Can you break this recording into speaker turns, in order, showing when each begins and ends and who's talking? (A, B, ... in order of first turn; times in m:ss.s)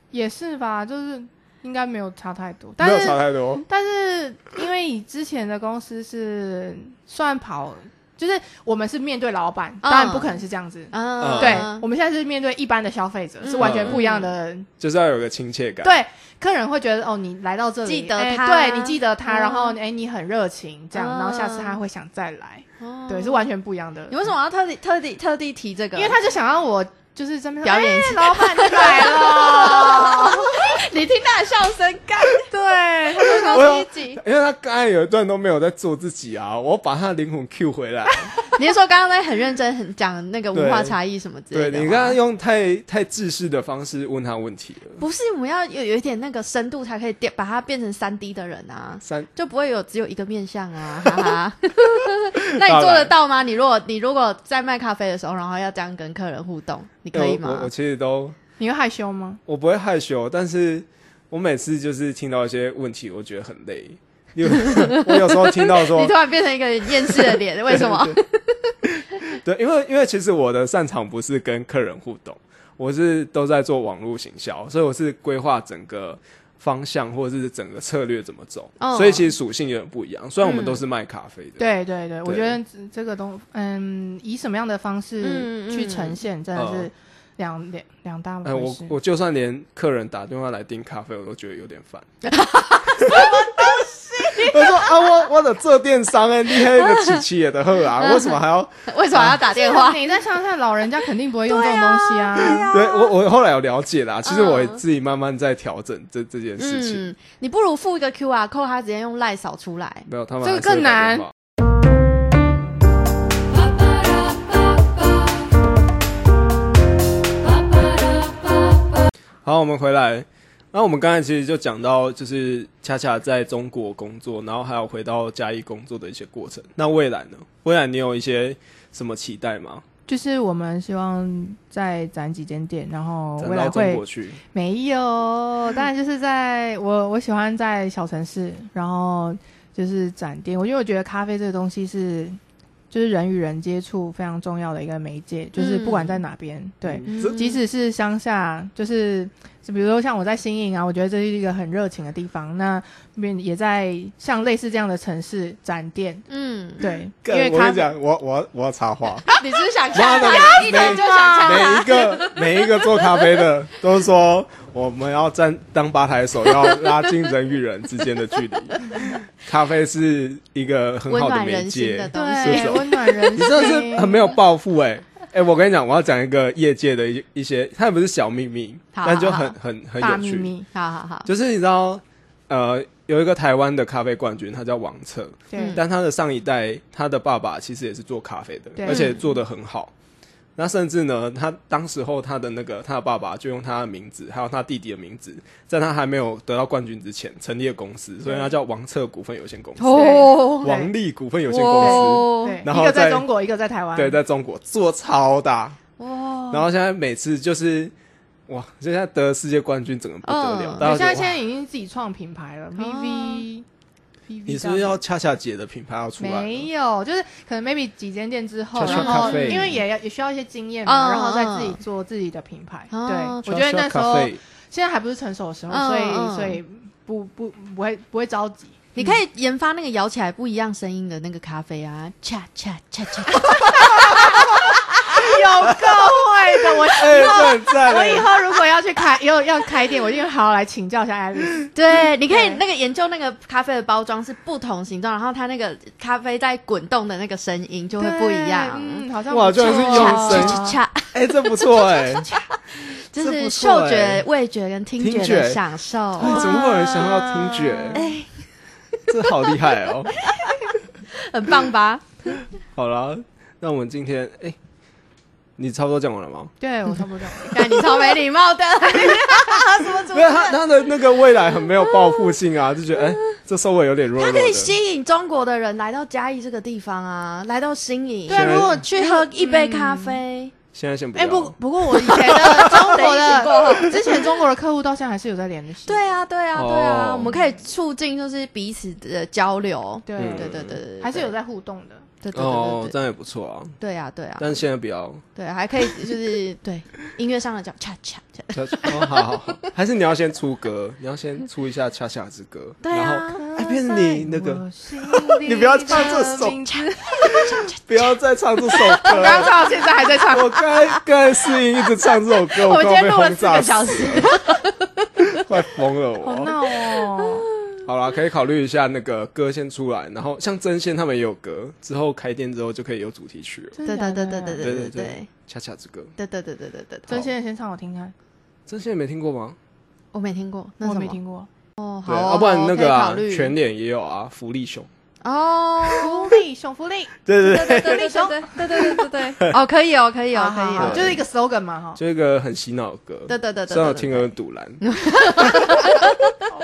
0:00.1-0:14.7 A
0:02.8-0:03.6 B
0:09.8-0:11.8 C
0:11.2-0:11.7 B
0:13.4-0:14.3 C
0:13.6-0:14.0 B
0:14.8-0:15.9 B
0:15.8-0:24.2 A
0:17.9-0:19.8 C
0:20.9-0:21.8 C
0:22.8-0:23.5 C
0:24.1-0:26.2 C
0:26.0-0:30.8 A
0:27.6-0:32.5 C
0:32.5-0:34.2 A
0:33.2-0:34.1 C
0:33.4-0:38.4 B
0:38.4-0:42.2 C
0:40.5-0:41.0 B
0:41.5-0:45.0 B
0:45.0-0:57.7 C
0:49.0-0:49.3 B
0:51.0-0:51.3 B
0:52.6-0:53.1 B
0:57.1-0:58.4 B
0:58.6-0:59.4 A
0:59.4-1:06.2 B
1:04.5-1:08.7 C
1:06.8-1:08.2 B
1:08.8-1:21.7 B
1:18.8-1:19.3 C
1:20.4-1:20.8 C
1:21.6-1:28.9 A
1:22.2-1:22.6 B
1:25.2-1:26.2 C
1:26.6-1:26.9 B
1:28.4-1:32.1 B
1:32.2-1:35.1 C
1:33.0-1:33.5 B
1:34.3-1:39.4 B
1:36.6-1:37.2 C
1:38.0-1:40.1 C
1:39.5-1:42.7 A
1:41.5-1:43.1 C
1:42.4-1:47.0 B
1:44.2-1:44.8 C
1:46.6-1:50.1 C
1:50.1-1:51.3 B
1:50.4-1:51.2 A
1:59.4-2:09.8 B
2:10.1-2:14.0 A
2:13.4-2:14.4 B
2:14.5-2:22.4 A
2:22.9-2:36.2 A
2:25.6-2:26.2 C
2:26.9-2:27.4 B
2:27.0-2:27.6 C
2:36.3-2:36.9 C
2:36.8-2:37.9 A
2:37.2-2:39.2 B
2:39.3-2:43.3 C
2:39.3-2:42.0 A
2:39.9-3:00.5 B
2:51.1-2:53.4 C
2:52.1-2:54.2 A
2:58.9-2:59.6 C
3:00.0-3:00.7 A
3:00.7-3:01.3 C
3:01.2-3:09.9 B
3:05.5-3:05.8 A
3:05.5-3:05.8 C
3:08.8-3:09.1 A
3:08.9-3:09.3 C
3:10.6-3:23.3 B
3:19.8-3:20.8 C
3:19.9-3:20.9 A
3:21.5-3:22.6 C
3:21.8-3:24.2 A
3:23.9-3:25.8 B
3:26.0-3:26.7 C
3:26.5-3:27.9 B
3:28.5-3:31.4 B
3:30.2-3:30.9 C
3:30.8-3:33.6 A
3:32.8-3:33.4 C
3:34.3-3:35.0 A
3:34.4-3:36.7 B
3:36.2-3:48.8 A
3:38.8-3:39.7 B
3:38.8-3:39.8 C
3:40.9-3:41.8 C
3:42.9-3:43.4 C
3:43.4-3:44.4 B
3:45.7-3:46.6 C
3:49.0-3:55.9 C
3:53.7-3:54.2 B
3:53.7-4:02.6 A
3:56.9-3:59.0 C
3:56.9-3:58.3 B
4:01.7-4:11.1 C
4:08.0-4:10.8 A
4:09.3-4:10.6 B
4:11.1-4:12.3 B
4:11.9-4:16.6 C
4:13.2-4:14.2 B
4:15.0-4:15.6 B
4:16.2-4:18.0 B
4:16.2-4:18.0 A
4:17.9-4:18.3 C
4:19.0-4:19.5 C
4:19.1-4:20.2 B
4:20.2-4:22.4 C
4:22.7-4:24.6 B
4:25.6-4:26.5 B
4:26.6-4:27.8 A
4:27.4-4:30.6 C
4:29.5-4:34.7 B
4:31.9-4:32.4 C
4:34.2-4:40.5 C
4:38.3-4:40.2 A
4:38.3-4:38.8 B
4:40.7-4:44.0 B
4:41.2-4:46.2 A
4:42.1-4:44.0 C
4:45.9-4:51.3 C
4:46.5-4:47.3 B
4:50.1-4:52.0 A
4:50.2-4:50.8 B
4:52.2-4:52.9 C
4:52.3-4:53.8 B
4:53.8-4:54.6 C
4:54.4-4:55.2 B
4:55.4-4:59.6 C
4:55.8-4:56.2 B
4:58.5-5:06.6 B
5:02.8-5:03.8 C
5:03.4-5:07.4 A
5:05.9-5:08.1 C
5:07.2-5:09.6 B
5:08.7-5:11.0 C
5:09.0-5:10.5 A
5:10.3-5:14.4 B
5:11.5-5:15.4 C
5:15.2-5:16.6 B
5:16.2-5:17.5 A
5:17.2-5:17.7 C
5:17.8-5:23.8 B
5:23.8-5:24.7 A
5:23.9-5:25.3 C
5:24.6-5:26.1 B
5:26.2-5:27.2 C
5:27.1-5:28.1 A
5:28.7-5:29.6 B
5:30.1-5:31.2 C
5:30.8-5:31.5 A
5:31.8-5:33.6 C
5:32.0-5:34.9 B
5:35.2-5:36.4 C
5:35.9-5:39.3 A
5:37.2-5:39.6 B
5:37.4-5:41.2 C
5:40.3-5:42.0 A
5:40.8-5:41.2 B
5:42.0-5:46.0 B
5:43.3-5:46.4 C